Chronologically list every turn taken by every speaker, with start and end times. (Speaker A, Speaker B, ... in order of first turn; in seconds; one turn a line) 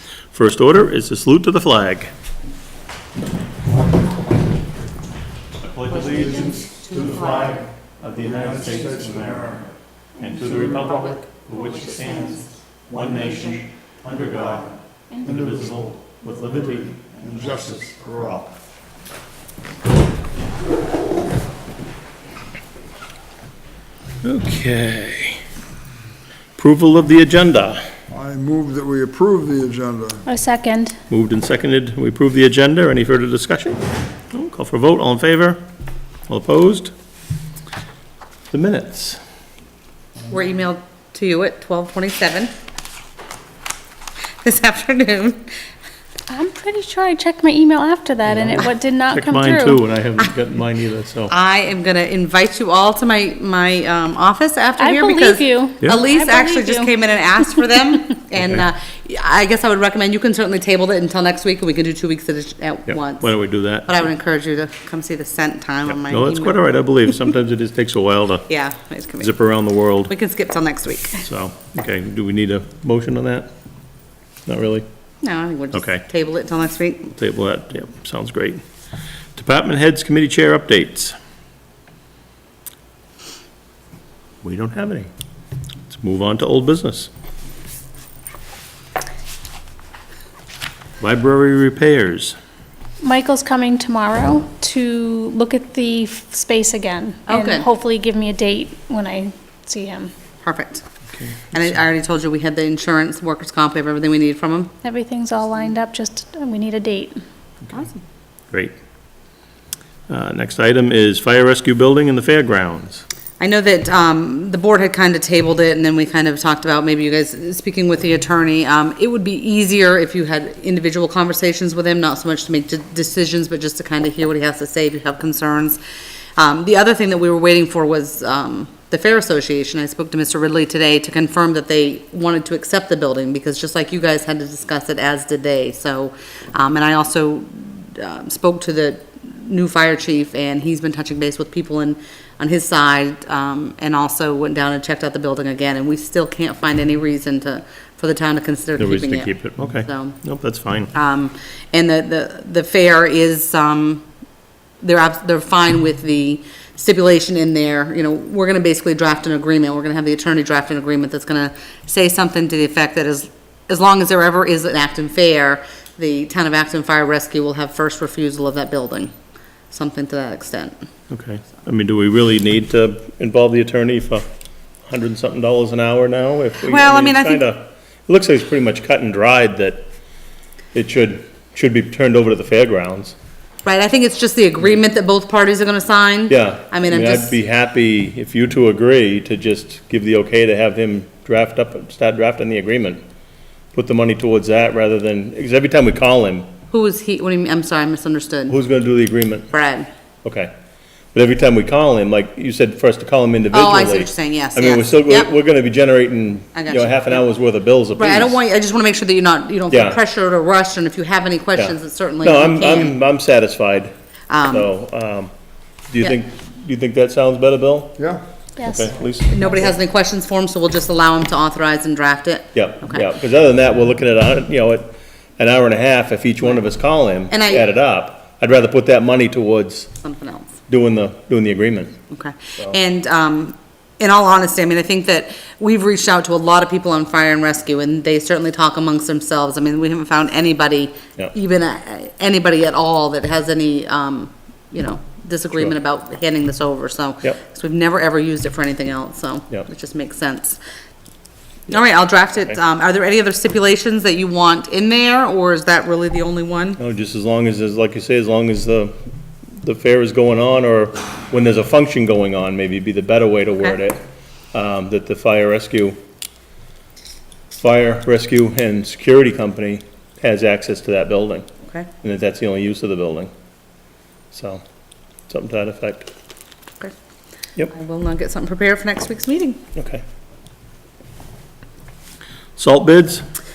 Speaker A: 0.3-2.1
Speaker A: 5.6-18.5
Speaker B: 6.1-7.6
Speaker C: 8.3-9.6
Speaker C: 10.5-10.8
Speaker B: 10.8-12.4
Speaker C: 15.3-15.8
Speaker C: 17.3-18.4
Speaker A: 24.2-25.4
Speaker A: 26.6-27.8
Speaker C: 28.1-30.2
Speaker D: 30.3-31.0
Speaker A: 31.1-33.8
Speaker A: 34.3-35.6
Speaker A: 36.3-36.9
Speaker A: 38.5-39.2
Speaker B: 40.3-42.5
Speaker B: 44.4-45.5
Speaker D: 46.3-49.8
Speaker A: 49.1-51.3
Speaker B: 51.3-63.3
Speaker D: 54.8-56.9
Speaker A: 58.4-58.7
Speaker A: 62.9-64.0
Speaker B: 63.9-66.6
Speaker A: 65.8-68.5
Speaker B: 68.5-69.3
Speaker A: 69.2-70.1
Speaker B: 70.1-71.2
Speaker A: 71.2-73.5
Speaker A: 74.5-74.9
Speaker B: 75.2-77.1
Speaker A: 75.7-76.0
Speaker A: 77.1-78.6
Speaker A: 79.4-81.2
Speaker A: 84.4-85.1
Speaker A: 85.9-87.1
Speaker A: 91.0-92.4
Speaker D: 93.0-100.1
Speaker B: 97.3-97.7
Speaker B: 100.4-100.8
Speaker A: 101.1-101.8
Speaker B: 101.5-104.7
Speaker D: 104.8-107.2
Speaker B: 107.7-108.0
Speaker A: 110.1-113.0
Speaker B: 113.4-125.8
Speaker B: 126.4-150.2
Speaker A: 148.8-150.9
Speaker B: 150.9-154.1
Speaker B: 154.8-169.1
Speaker B: 169.7-170.8
Speaker A: 171.1-174.3
Speaker A: 174.9-179.9
Speaker B: 176.6-177.4
Speaker A: 180.7-183.2
Speaker B: 183.6-187.3
Speaker A: 186.3-193.0
Speaker A: 193.7-196.5
Speaker B: 196.7-198.6
Speaker A: 198.5-199.5
Speaker B: 199.5-199.9
Speaker A: 200.2-200.5
Speaker A: 201.1-208.4
Speaker B: 203.5-205.3
Speaker B: 206.6-207.2
Speaker B: 207.9-212.9
Speaker A: 209.7-210.0
Speaker A: 211.6-213.9
Speaker B: 214.3-214.7
Speaker A: 214.5-215.3
Speaker A: 215.9-218.0
Speaker D: 218.6-218.9
Speaker A: 218.6-219.5
Speaker B: 219.3-223.1
Speaker A: 222.5-229.9
Speaker B: 227.3-227.7
Speaker B: 230.0-230.6
Speaker A: 230.7-232.0
Speaker B: 232.1-250.6
Speaker B: 251.7-256.8
Speaker A: 256.8-258.9
Speaker A: 259.6-264.0
Speaker A: 264.5-266.0
Speaker A: 267.5-271.5
Speaker A: 272.0-273.3
Speaker A: 274.3-274.6
Speaker A: 275.3-276.1
Speaker B: 277.7-279.6
Speaker A: 279.8-280.0
Speaker A: 282.6-283.2